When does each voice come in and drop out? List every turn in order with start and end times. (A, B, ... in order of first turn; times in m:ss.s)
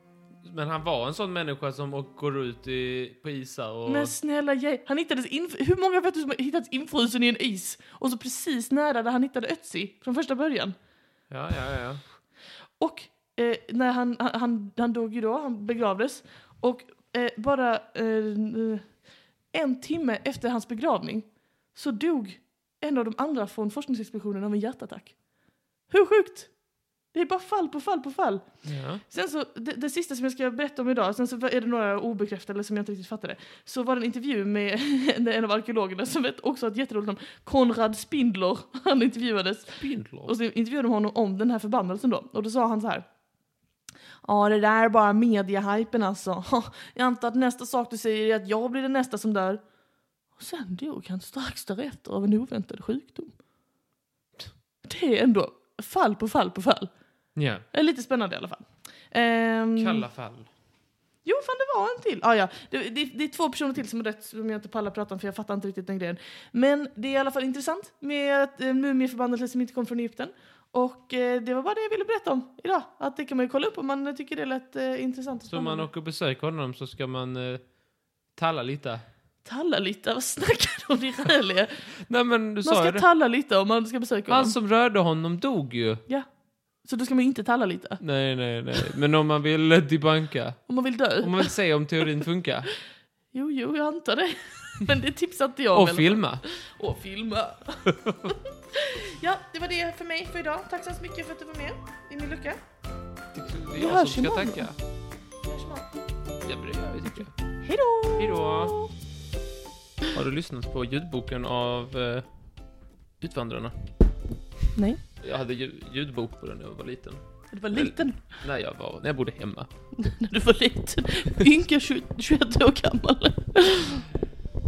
0:00.4-0:04.1 A
0:03.8-0:10.7 B
0:11.3-0:12.0 A
0:12.8-0:19.0 B
0:19.5-0:25.2 B
0:25.9-0:26.5 B
0:27.1-0:43.0 B
0:28.6-0:29.0 A
0:39.8-0:40.3 A
0:44.2-0:49.6 B
0:50.3-0:53.3 B
0:54.8-0:56.9 B
0:57.3-0:57.6 A
0:57.7-1:00.0 B
0:59.8-1:00.5 A
1:01.2-1:15.9 B
1:15.5-1:17.7 A
1:18.3-1:19.0 A
1:19.4-1:21.9 B
1:22.1-1:23.0 A
1:22.6-1:24.6 B
1:24.3-1:26.0 A
1:26.8-1:28.0 B
1:28.0-1:32.7 A
1:30.7-1:32.0 B
1:33.3-1:42.6 B
1:35.7-1:36.4 A
1:37.8-1:38.2 A
1:43.3-1:44.8 A
1:43.8-1:44.7 B
1:45.4-1:45.9 B
1:46.4-1:47.4 A
1:47.6-1:48.9 B
1:48.2-1:48.8 A
1:50.1-1:52.3 A
1:53.2-1:53.9 A
1:54.7-1:55.0 B
1:55.2-1:59.7 A
1:57.5-1:58.4 B
2:00.0-2:04.1 B